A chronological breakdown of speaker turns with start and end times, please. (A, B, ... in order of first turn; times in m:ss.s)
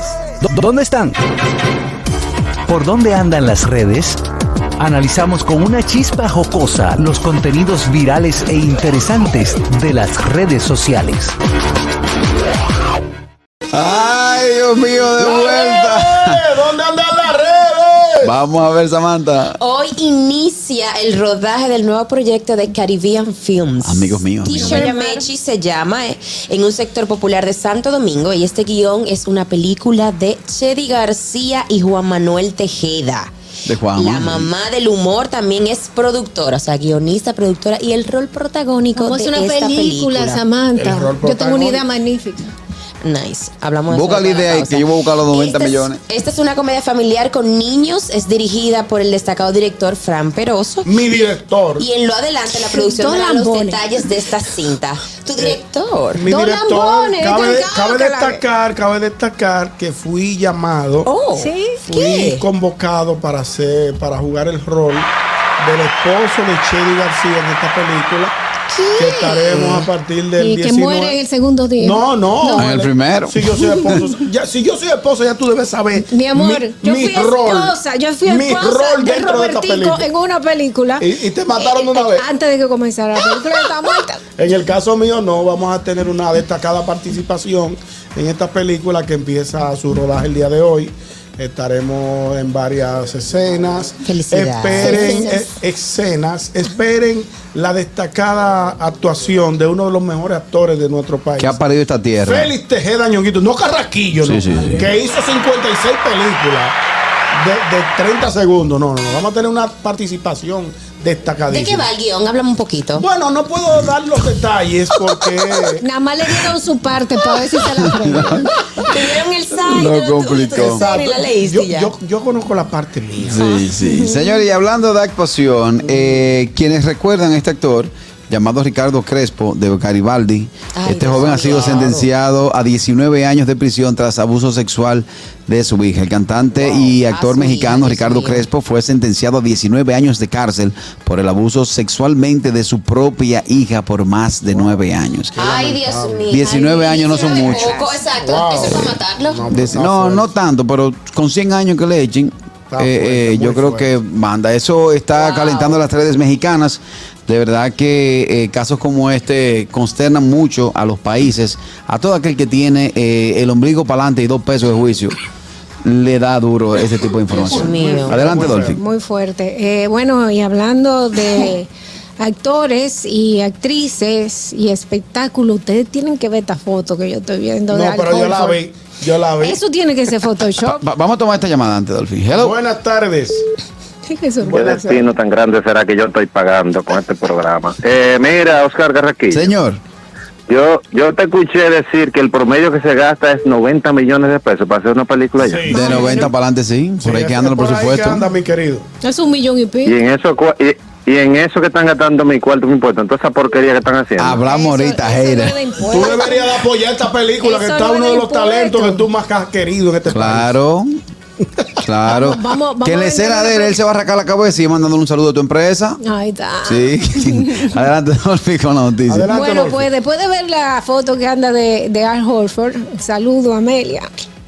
0:00.4-0:01.2 A
0:02.7-0:04.2 A
0:04.8-0:11.4 A
0:13.7-0:16.4 B
0:15.2-0:18.3 C
0:18.2-0:19.6 B
0:19.6-0:33.3 D
0:23.8-0:24.9 B
0:24.5-0:25.3 E
0:33.7-0:34.5 B
0:33.9-0:40.4 D
0:39.0-0:42.5 E
0:40.8-0:41.9 C
0:43.0-0:56.3 D
0:43.9-0:46.0 B
0:50.8-0:51.9 C
0:52.7-0:53.8 E
0:56.1-1:01.1 C
0:56.3-0:58.4 E
1:01.0-1:02.5 D
1:01.4-1:01.8 E
1:01.8-1:08.3 C
1:08.7-1:09.9 D
1:09.0-1:11.2 C
1:10.4-1:12.7 E
1:11.8-1:20.1 C
1:12.5-1:14.0 B
1:16.1-1:24.2 E
1:21.0-1:22.3 C
1:24.4-1:41.6 C
1:34.0-1:35.5 D
1:34.8-1:35.4 E
1:41.4-1:42.5 B
1:42.2-1:46.8 C
1:44.2-1:44.9 B
1:47.3-1:51.9 C
1:51.5-1:53.1 D
1:53.0-1:55.8 C
1:55.8-1:58.5 E
1:57.7-2:00.9 B
1:58.8-2:01.9 D
2:00.5-2:03.4 C
2:03.2-2:25.6 B
2:03.4-2:04.2 D
2:05.9-2:06.2 D
2:10.8-2:12.1 D
2:16.6-2:16.9 C
2:16.9-2:18.5 D
2:24.5-2:24.8 C
2:25.4-2:29.7 D
2:25.4-2:26.3 C
2:26.3-2:27.8 B
2:26.4-2:28.0 E
2:28.2-2:30.4 C
2:29.5-2:45.2 B
2:32.7-2:33.9 C
2:35.1-2:35.9 D
2:45.8-2:48.8 B
2:47.3-2:48.8 C
2:47.4-2:48.2 D
2:48.3-2:58.6 E
2:57.7-2:59.6 C
2:59.4-3:00.8 E
3:00.6-3:02.6 B
3:02.3-3:03.4 C
3:04.0-3:05.0 E
3:04.4-3:04.8 C
3:04.5-3:09.5 F
3:09.3-3:09.8 B
3:10.5-3:15.7 F
3:15.4-3:16.2 C
3:15.7-3:16.3 E
3:15.7-3:18.2 B
3:17.0-3:18.8 C
3:19.0-3:20.0 E
3:19.8-3:24.4 F
3:24.2-3:25.6 B
3:24.4-3:26.6 E
3:25.9-3:30.6 C
3:27.4-3:29.1 E
3:30.1-3:31.0 B
3:31.8-3:36.0 B
3:32.1-3:33.8 E
3:36.0-3:37.7 E
3:36.6-3:39.4 B
3:39.1-3:39.9 C
3:39.3-3:44.1 E